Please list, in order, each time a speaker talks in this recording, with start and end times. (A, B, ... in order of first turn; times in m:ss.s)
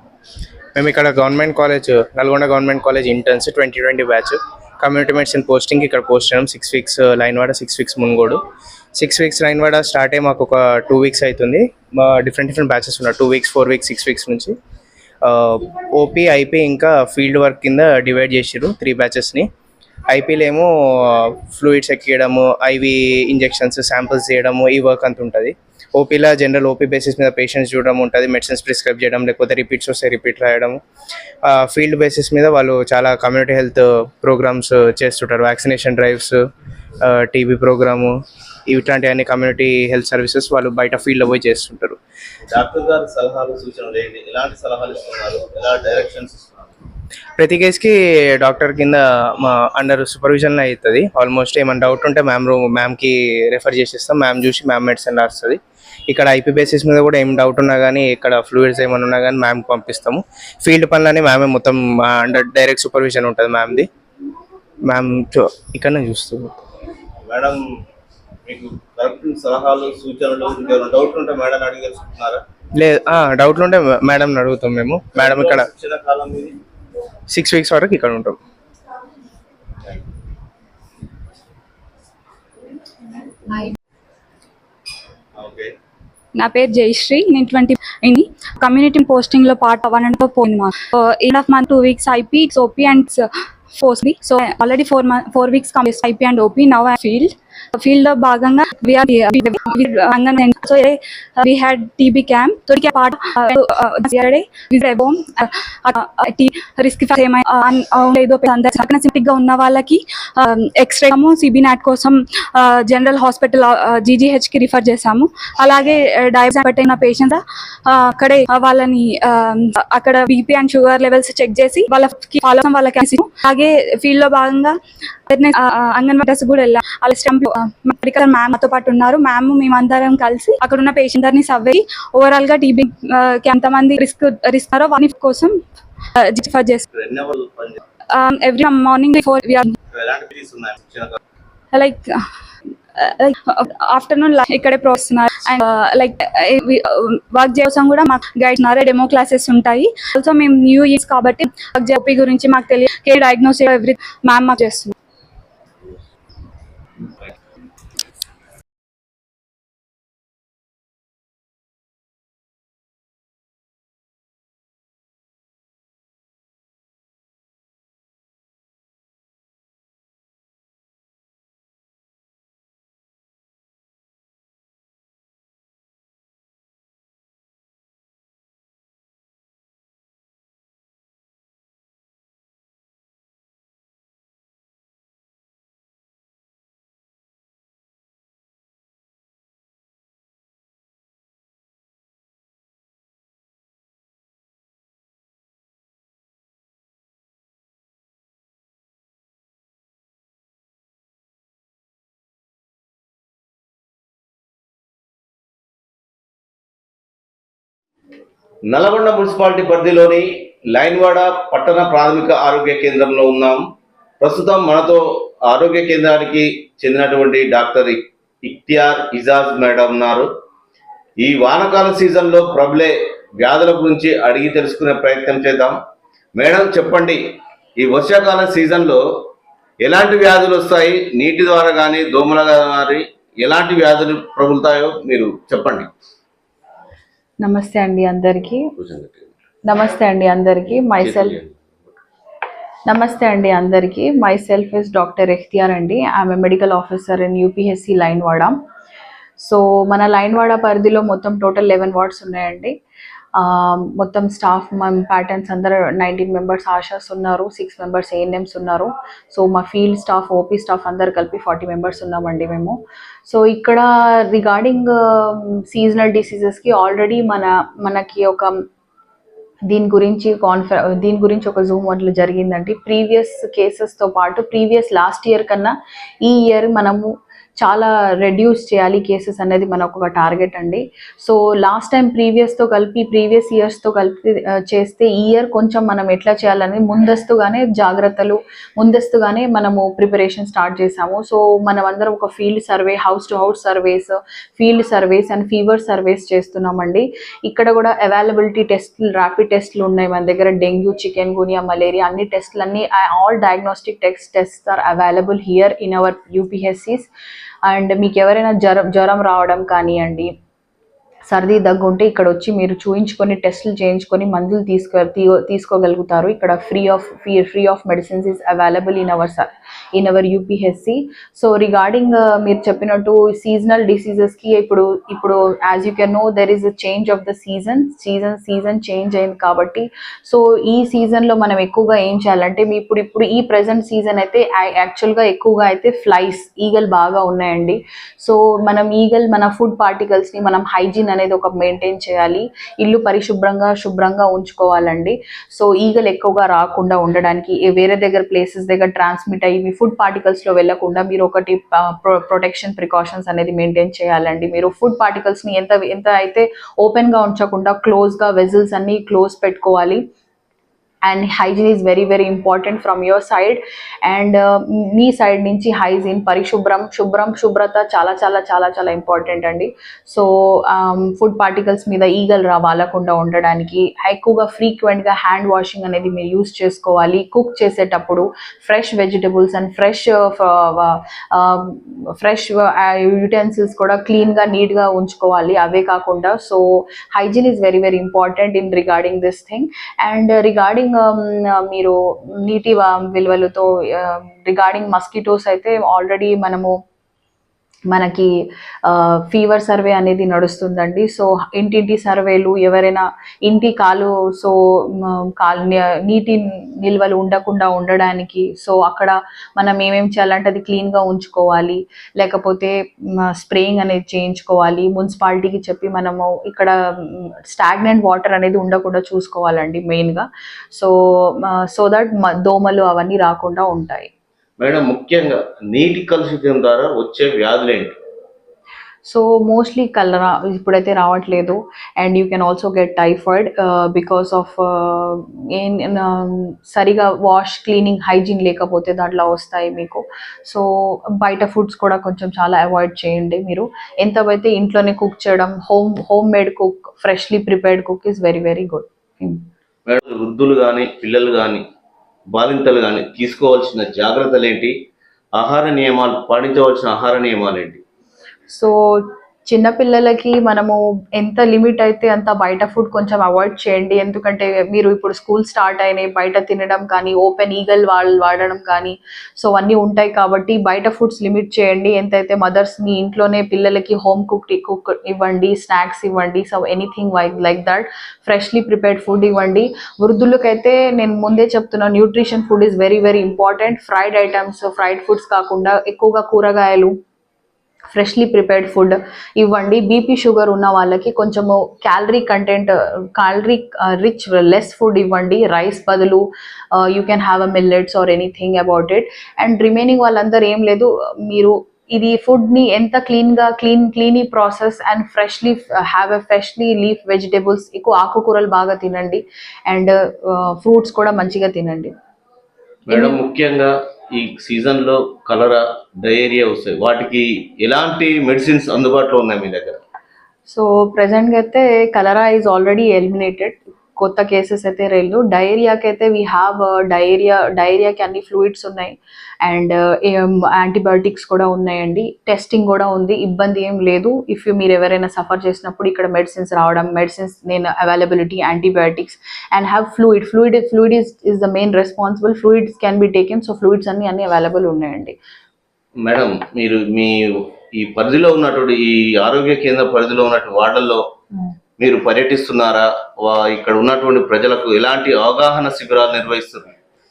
0:00.8-0:08.4 A
0:09.0-0:14.6 A
0:15.2-0:19.5 A
0:20.1-0:30.8 A
0:31.4-0:36.4 A
0:37.0-0:42.0 A
0:42.5-0:46.8 B
0:47.4-1:03.9 A
1:04.9-1:06.6 A
1:07.2-1:07.6 B
1:08.5-1:12.4 B
1:12.8-1:15.7 A
1:15.2-1:16.6 B
1:17.3-1:18.4 A
1:25.4-1:25.7 B
1:26.4-2:04.8 C
2:05.3-2:15.6 C
2:16.2-2:16.8 C
2:16.9-2:17.8 B
2:18.1-2:19.7 C
2:19.9-2:21.2 B
2:21.7-2:22.3 C
2:23.0-2:34.9 C
3:28.7-3:33.6 B
3:34.2-3:40.3 B
3:41.2-3:45.8 B
3:46.4-3:47.2 B
3:47.8-3:49.0 B
3:49.8-3:55.9 B
3:57.4-3:58.7 D
3:58.8-3:59.3 B
3:59.7-4:01.4 D
4:01.0-4:01.6 B
4:02.9-4:08.6 D
4:09.4-4:12.8 D
4:13.4-4:28.5 D
4:29.7-4:35.7 D
4:36.2-5:07.1 D
5:07.7-5:10.3 D
5:11.3-6:00.0 D
6:01.1-6:26.6 D
6:27.1-6:36.7 D
6:37.9-6:38.3 D
6:38.9-6:52.7 D
6:53.3-7:00.9 D
7:01.4-7:04.1 D
7:04.6-7:07.9 B
7:09.0-7:20.6 D
7:21.2-7:29.4 D
7:29.9-7:31.6 B
7:32.4-7:34.7 B
7:35.4-7:37.8 B
7:38.5-8:06.9 D
8:07.9-8:31.9 D
8:32.9-8:39.8 B
8:32.9-8:33.2 D
8:40.5-9:05.2 D
9:06.0-9:11.0 B
9:11.8-9:16.8 B